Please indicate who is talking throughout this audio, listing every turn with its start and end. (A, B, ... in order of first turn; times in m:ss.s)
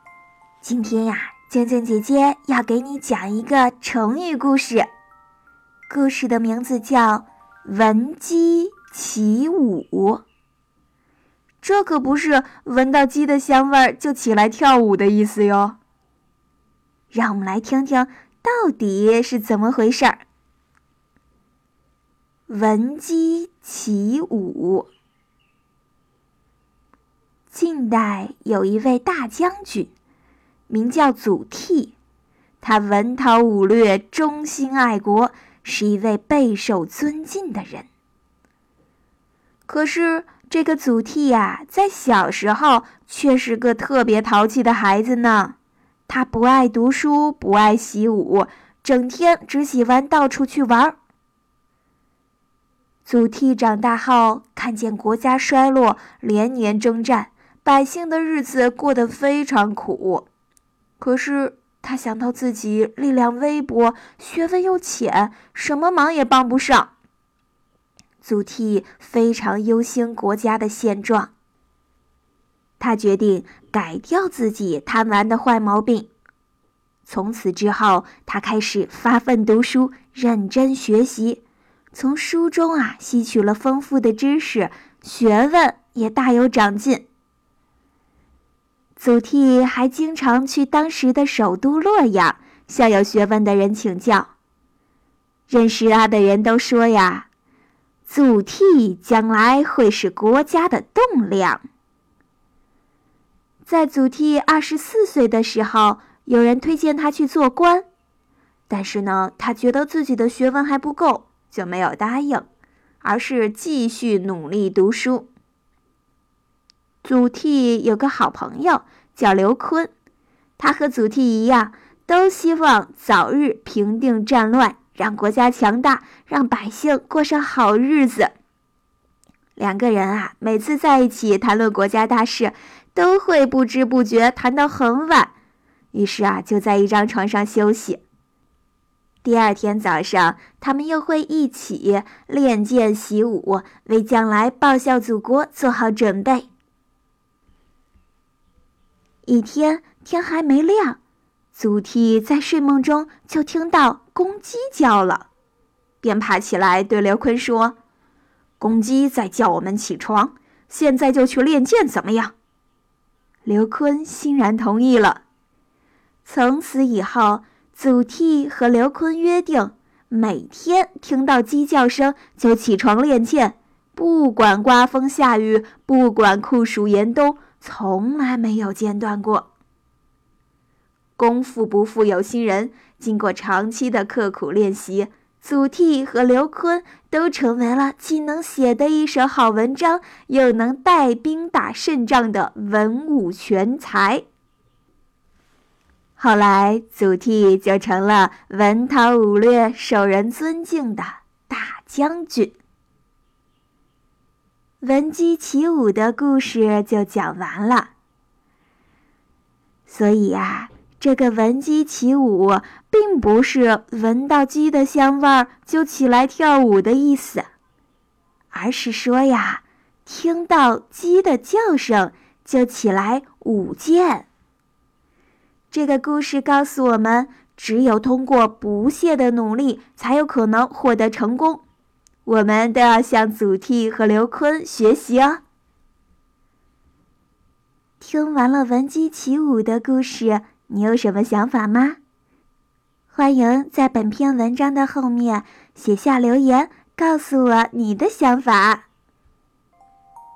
0:00.6-0:04.9 A
0:05.9-0:10.2 A
0:11.6-0:15.8 A
0:17.1-0:20.2 A
0:22.5-0:24.9 A
0:27.5-0:29.9 A
0:30.7-0:32.0 A
0:32.6-0:37.9 A
0:39.7-0:45.6 A
0:46.1-0:51.0 A
0:53.0-1:00.3 A
1:01.0-1:06.9 A
1:08.2-1:11.3 A
1:12.8-1:16.1 A
1:17.1-1:21.4 A
1:21.9-1:27.1 A
1:29.0-1:34.3 A
1:35.5-1:37.3 A
1:38.1-1:41.6 A
1:43.6-1:47.9 A
1:48.7-1:52.5 A
1:53.0-1:55.3 A
1:57.0-1:59.9 A
2:00.6-2:08.3 A
2:09.6-2:15.3 A
2:15.9-2:18.0 A
2:19.2-2:26.5 A
2:29.3-2:31.0 A
2:31.5-2:35.3 A
2:36.0-2:37.8 A
2:38.6-2:42.3 A
2:43.4-2:45.2 A
2:46.2-2:59.5 A
3:01.2-3:14.2 A
3:16.2-3:22.6 A
3:24.8-3:27.9 A
3:29.9-3:37.5 A
3:38.5-3:44.3 A
3:45.7-3:51.6 A
3:52.2-3:55.4 A
3:58.0-4:02.0 A
4:03.1-4:08.9 A